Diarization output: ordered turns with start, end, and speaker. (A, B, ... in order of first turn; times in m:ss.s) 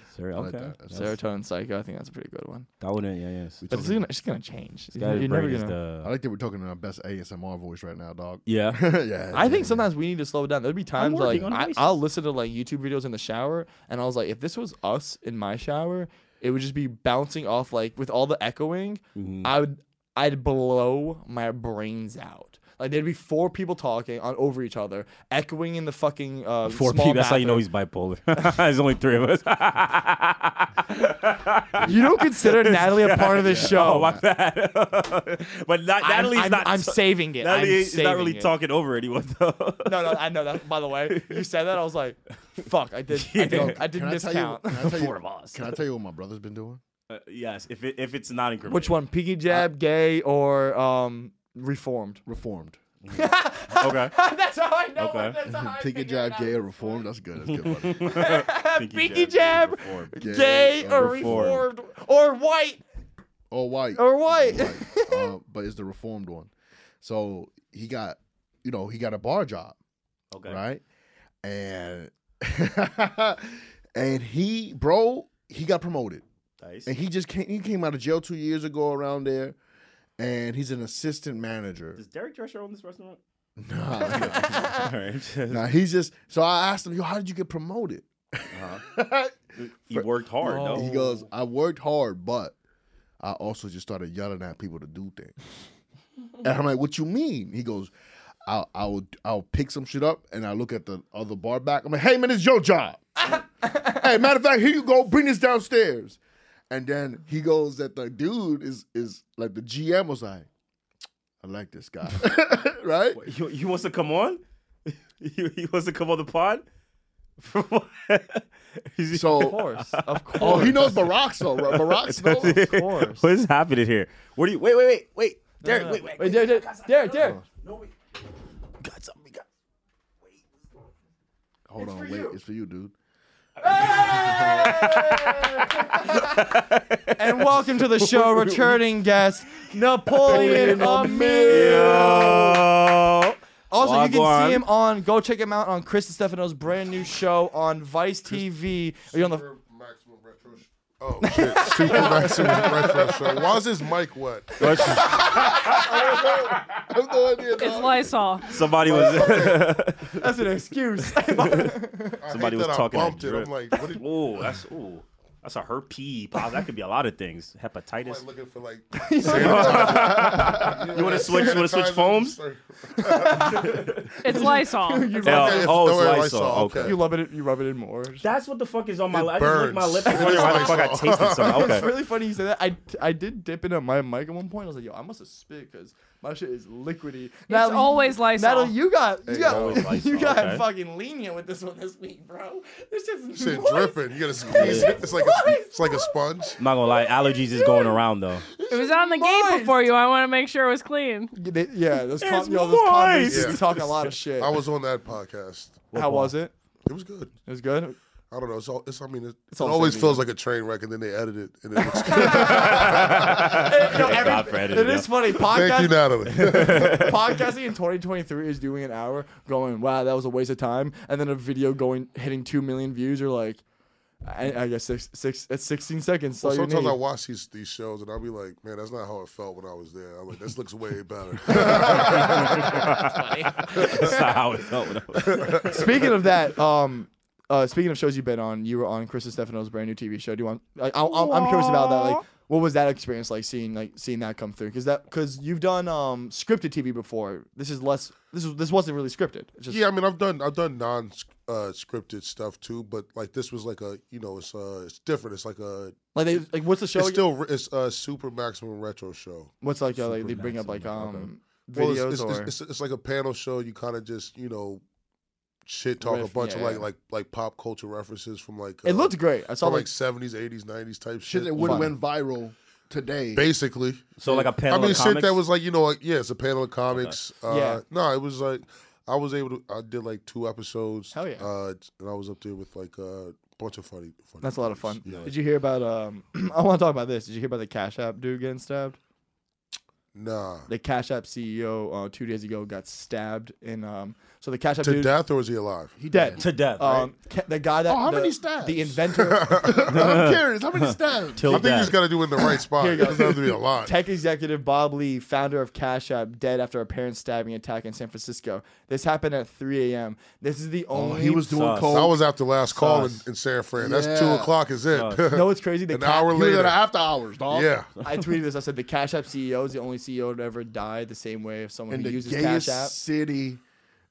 0:00.1-0:01.1 A
0:00.3-0:01.2 B
0:00.9-0:02.7 C
0:02.8-0:03.6 A
0:03.6-0:04.0 B
0:03.7-0:05.7 C
0:05.0-0:06.1 A
0:06.0-0:09.8 B
0:08.4-0:08.8 A
0:09.3-0:27.6 C
0:11.0-0:12.0 A
0:19.2-0:19.5 A
0:26.6-0:40.2 A
0:31.8-0:34.1 C
0:33.4-0:34.2 B
0:36.0-0:38.5 C
0:39.8-0:44.9 C
0:41.1-0:41.5 A
0:43.1-0:43.8 A
0:43.4-0:46.8 B
0:44.8-0:45.7 A
0:47.1-0:49.0 A
0:48.7-0:52.2 C
0:52.2-0:52.8 B
0:53.0-0:54.1 A
0:53.1-0:57.0 C
0:55.0-0:55.4 A
0:55.4-0:58.2 B
0:57.5-1:00.1 A
0:58.0-1:02.8 C
1:00.2-1:01.6 B
1:00.9-1:01.6 A
1:03.5-1:06.5 B
1:04.0-1:05.3 C
1:07.0-1:09.8 B
1:10.3-1:10.6 A
1:10.4-1:10.8 B
1:11.4-1:16.2 B
1:16.6-1:16.9 A
1:16.8-1:19.6 B
1:20.2-1:22.0 B
1:22.0-1:23.2 A
1:23.6-1:24.8 B
1:24.0-1:25.7 A
1:25.5-1:32.6 B
1:28.5-1:28.8 A
1:29.6-1:30.9 A
1:30.4-1:31.2 C
1:33.2-1:35.3 B
1:36.4-1:37.9 B
1:38.4-1:46.2 B
1:43.3-1:44.0 C
1:46.7-1:50.5 B
1:51.4-1:53.2 B
1:53.1-1:56.6 A
1:57.4-2:07.9 A
1:59.1-1:59.6 B
1:59.4-2:00.9 C
2:00.4-2:02.6 B
2:02.4-2:03.3 C
2:05.6-2:07.4 C
2:08.8-2:09.4 A
2:11.7-2:12.9 B
2:11.8-2:12.4 C
2:13.6-2:16.5 C
2:13.6-2:18.8 A
2:17.2-2:22.4 C
2:20.2-2:22.6 B
2:20.2-2:20.9 A
2:21.5-2:24.6 A
2:23.7-2:29.4 C
2:29.1-2:35.2 D
2:31.2-2:33.4 C
2:34.6-2:36.4 A
2:34.9-2:35.9 C
2:35.0-2:38.2 B
2:37.6-2:38.5 E
2:38.5-2:40.2 A
2:38.8-2:39.6 B
2:38.9-2:39.7 D
2:40.1-2:42.2 C
2:41.2-2:48.2 A
2:42.2-2:44.1 D
2:48.0-2:54.0 D
2:48.9-2:50.3 C
2:49.2-2:52.4 A
2:53.0-2:55.8 C
2:53.7-2:54.0 A
2:54.2-2:55.2 E
2:55.2-2:57.0 A
2:55.2-2:57.0 D
2:56.8-2:58.3 C
2:58.2-3:01.9 A
2:59.1-3:01.9 D
3:00.0-3:00.8 C
3:01.4-3:16.1 C
3:07.5-3:08.8 E
3:09.3-3:10.6 A
3:09.4-3:09.8 D
3:13.3-3:16.6 D
3:14.5-3:15.0 A
3:16.6-3:18.5 A
3:18.7-3:19.8 C
3:18.7-3:21.3 E
3:21.3-3:24.6 C
3:22.2-3:24.0 A
3:23.3-3:23.6 D
3:24.4-3:25.8 D
3:25.9-3:26.3 A
3:25.9-3:26.5 C
3:26.9-3:27.3 D
3:27.5-3:28.0 C
3:28.3-3:34.1 D
3:29.5-3:30.2 C
3:31.8-3:43.6 C
3:32.3-3:35.1 A
3:35.4-3:37.2 D
3:36.3-3:37.1 A
3:44.2-3:47.0 C
3:46.4-3:54.2 D
3:51.6-3:52.1 C
3:51.9-3:55.8 A
3:53.1-3:54.2 C
3:55.2-3:56.0 D
3:55.6-4:09.8 C
4:01.0-4:02.2 A
4:09.7-4:16.0 D
4:16.1-4:17.2 C
4:16.9-4:19.5 D
4:19.6-4:22.5 C
4:20.0-4:21.2 A
4:21.7-4:24.8 D
4:25.6-4:31.9 D
4:26.0-4:26.9 C
4:28.8-4:29.9 C
4:31.2-4:33.5 B
4:31.6-4:31.9 C
4:33.3-4:34.1 D
4:34.2-4:35.4 A
4:34.6-4:45.3 D
4:36.9-4:37.2 A
4:37.5-4:37.8 C
4:41.1-4:41.5 C
4:44.4-4:49.0 C
4:50.1-4:50.7 D
4:50.7-4:55.1 C
4:54.8-4:55.9 D
4:56.0-4:56.5 B
4:56.1-4:59.6 C
4:56.4-4:57.1 A
4:57.8-5:01.9 B
4:59.4-5:00.0 D
4:59.9-5:00.4 A
5:01.3-5:02.0 A
5:01.5-5:03.9 D
5:02.8-5:11.5 C
5:10.9-5:12.2 B
5:11.5-5:12.1 A
5:11.9-5:16.8 D
5:12.7-5:13.2 C
5:13.8-5:14.6 B
5:14.9-5:15.2 A
5:15.3-5:16.3 C
5:16.3-5:17.8 B
5:17.5-5:17.9 D
5:18.0-5:22.9 C
5:21.9-5:23.6 B